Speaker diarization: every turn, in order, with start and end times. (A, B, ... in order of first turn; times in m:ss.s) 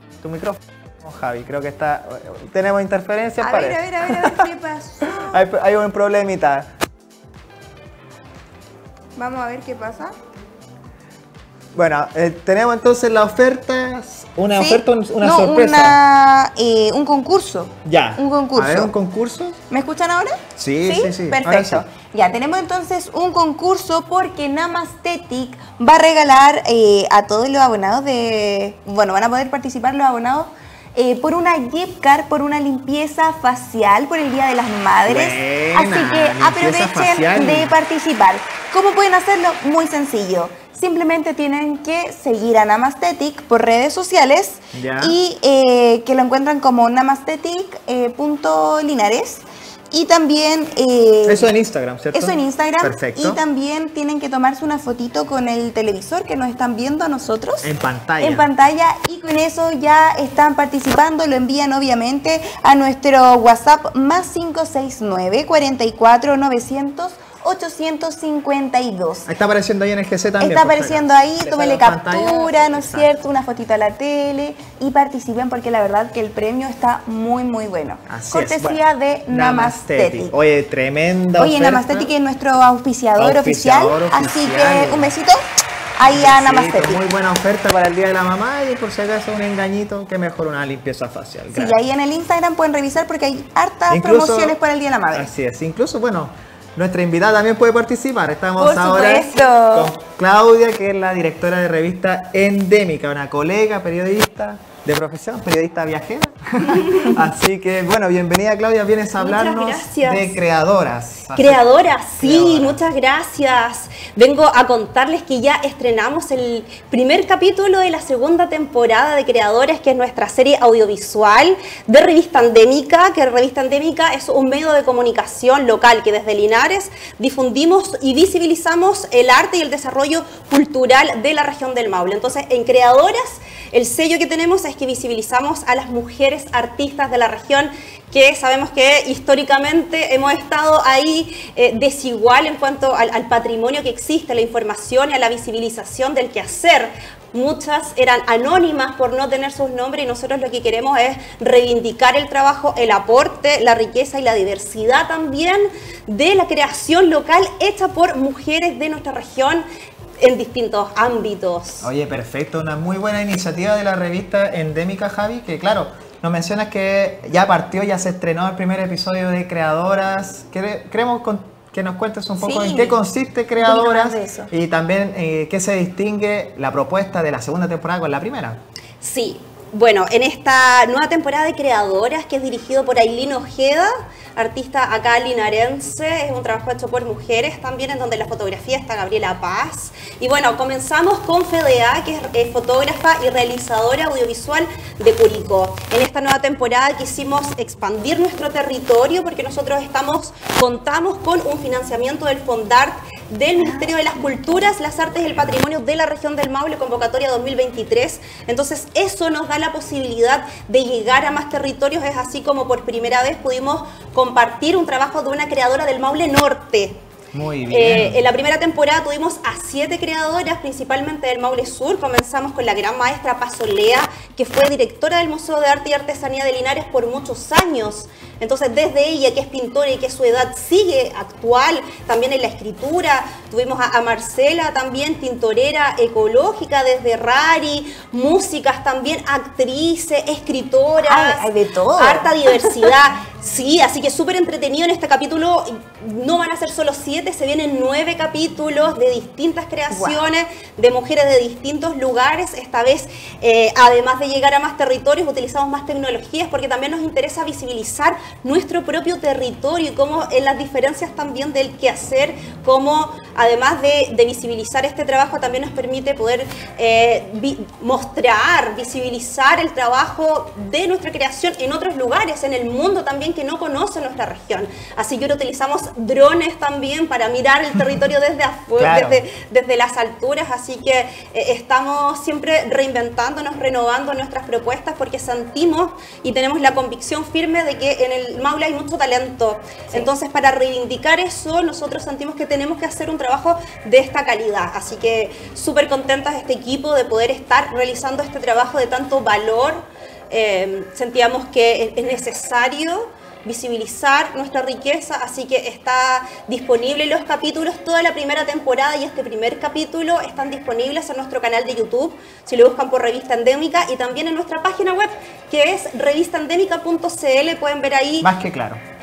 0:00.2-0:04.4 A
0:03.4-0:05.4 B
0:05.2-0:06.7 A
0:09.2-0:10.1 B
0:11.7-0:16.0 A
0:14.5-0:18.9 B
0:17.8-0:19.6 A
0:19.7-0:51.5 B
0:20.6-0:21.8 A
0:35.1-0:37.7 A
0:44.7-0:45.2 A
0:51.2-0:53.4 A
0:52.1-1:09.3 B
0:57.6-0:58.5 A
1:09.2-1:13.1 A
1:10.4-1:20.3 B
1:18.1-1:22.1 A
1:21.4-1:25.4 B
1:23.2-1:25.1 A
1:26.0-1:27.0 B
1:26.1-1:31.8 A
1:31.5-1:35.3 B
1:33.9-1:34.6 A
1:35.1-1:51.6 A
1:38.6-1:39.9 B
1:38.6-1:39.3 C
1:49.2-1:50.4 C
1:51.3-2:39.6 C
1:52.2-1:52.8 A
2:40.2-2:41.9 C
2:41.8-2:58.6 A
2:52.4-2:53.0 B
2:53.6-2:54.5 B
2:59.0-3:37.0 C
3:37.3-3:38.2 A
3:37.7-5:18.3 C
4:01.0-4:02.3 B
4:09.9-4:10.2 B
4:38.8-4:39.2 A
5:18.2-5:18.8 A